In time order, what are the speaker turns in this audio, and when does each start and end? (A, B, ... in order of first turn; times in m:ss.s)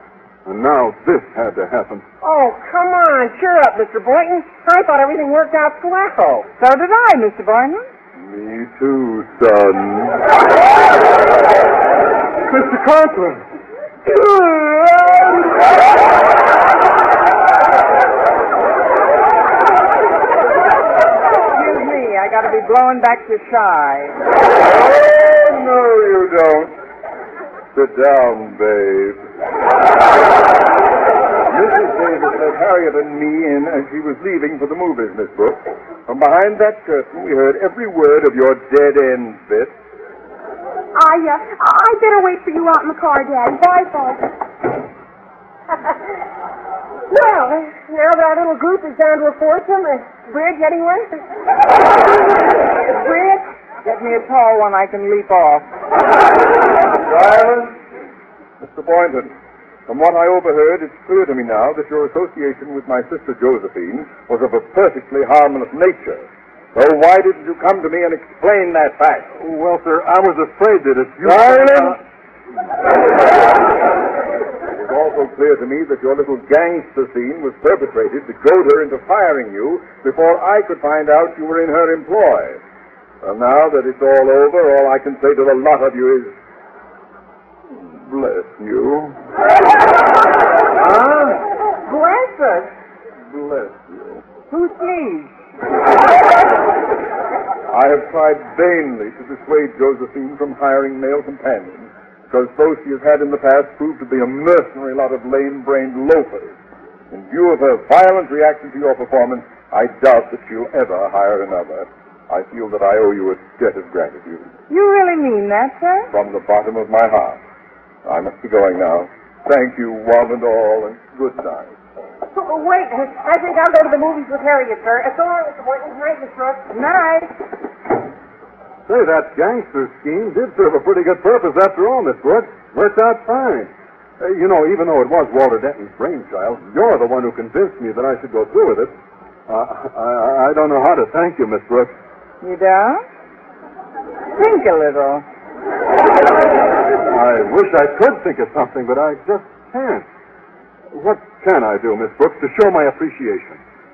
0:00.5-0:02.0 A
0:02.2-0:06.5 B
0:06.6-0:07.8 C
0:08.2-0:10.3 D
0:12.5-0:13.5 A
0:21.5-0:24.2 C
0:24.6-0:26.8 D
0:27.7-0:29.3 D
0:31.5-0:39.7 D
0:41.0-0:44.2 E
0:47.1-0:51.2 B
0:53.0-0:55.7 C
0:57.0-0:57.8 D
0:58.6-0:59.3 D
0:59.9-1:09.3 D
1:09.4-1:12.0 A
1:11.2-1:12.0 D
1:14.7-1:22.6 D
1:23.2-1:26.4 D
1:27.9-1:29.2 D
1:31.8-1:32.7 C
1:33.3-1:34.2 D
1:34.5-1:35.3 C
1:37.7-1:46.6 D
1:47.1-1:54.5 D
1:54.7-1:56.1 C
1:56.1-1:57.4 D
1:58.0-2:01.7 D
2:02.3-2:06.7 B
2:06.7-2:07.3 C
2:08.9-2:18.9 A
2:19.5-2:21.9 A
2:22.4-2:23.0 C
2:24.4-2:25.2 C
2:27.1-2:30.0 A
2:30.9-2:33.6 A